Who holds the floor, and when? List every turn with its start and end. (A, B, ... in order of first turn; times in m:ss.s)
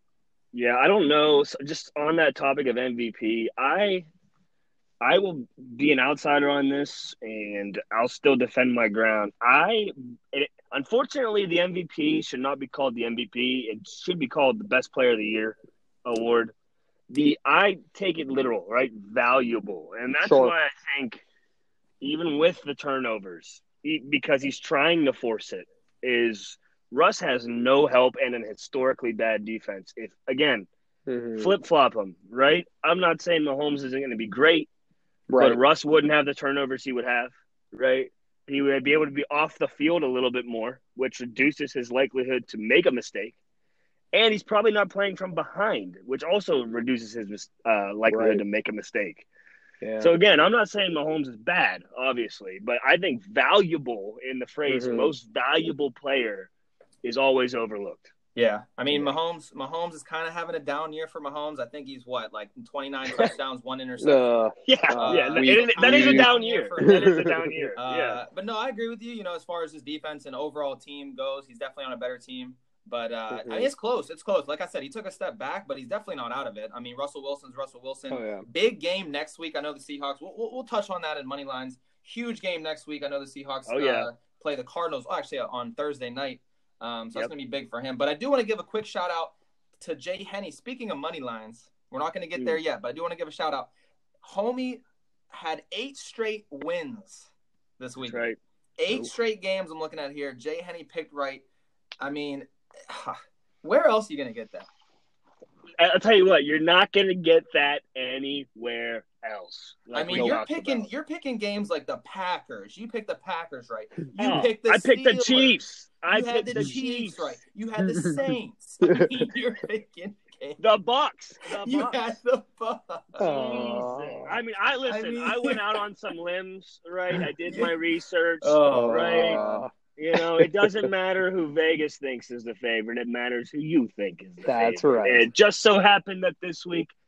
0:00.5-0:04.1 A
0:05.0-0:16.5 A
0:17.1-0:21.2 A
0:20.2-0:20.5 B
0:22.0-0:30.7 A
0:31.1-0:31.5 B
0:31.4-0:34.7 A
0:35.3-0:35.6 B
0:35.4-0:43.4 A
0:44.1-0:49.3 A
0:48.1-0:48.4 B
0:49.8-0:50.1 B
0:50.0-0:56.5 A
0:54.7-0:55.2 B
0:57.0-0:58.1 A
0:58.4-1:04.4 C
1:04.0-1:07.6 B
1:04.7-1:08.2 A
1:05.0-1:33.7 C
1:13.3-1:13.7 B
1:18.1-1:18.5 B
1:23.7-1:24.1 A
1:34.2-1:38.3 C
1:38.1-1:38.4 A
1:38.8-1:41.4 C
1:42.0-1:44.7 C
1:45.8-1:50.9 A
1:49.9-1:55.6 C
1:50.1-1:50.4 B
1:54.2-1:57.4 A
1:56.1-2:00.6 C
1:57.8-1:58.2 B
1:58.8-1:59.1 B
2:00.6-2:02.0 A
2:01.5-2:03.4 C
2:03.2-2:04.3 B
2:03.2-2:09.4 A
2:04.9-2:05.7 C
2:07.5-2:07.7 C
2:08.4-2:09.6 C
2:08.7-2:10.6 B
2:10.0-2:16.9 A
2:14.4-2:15.3 B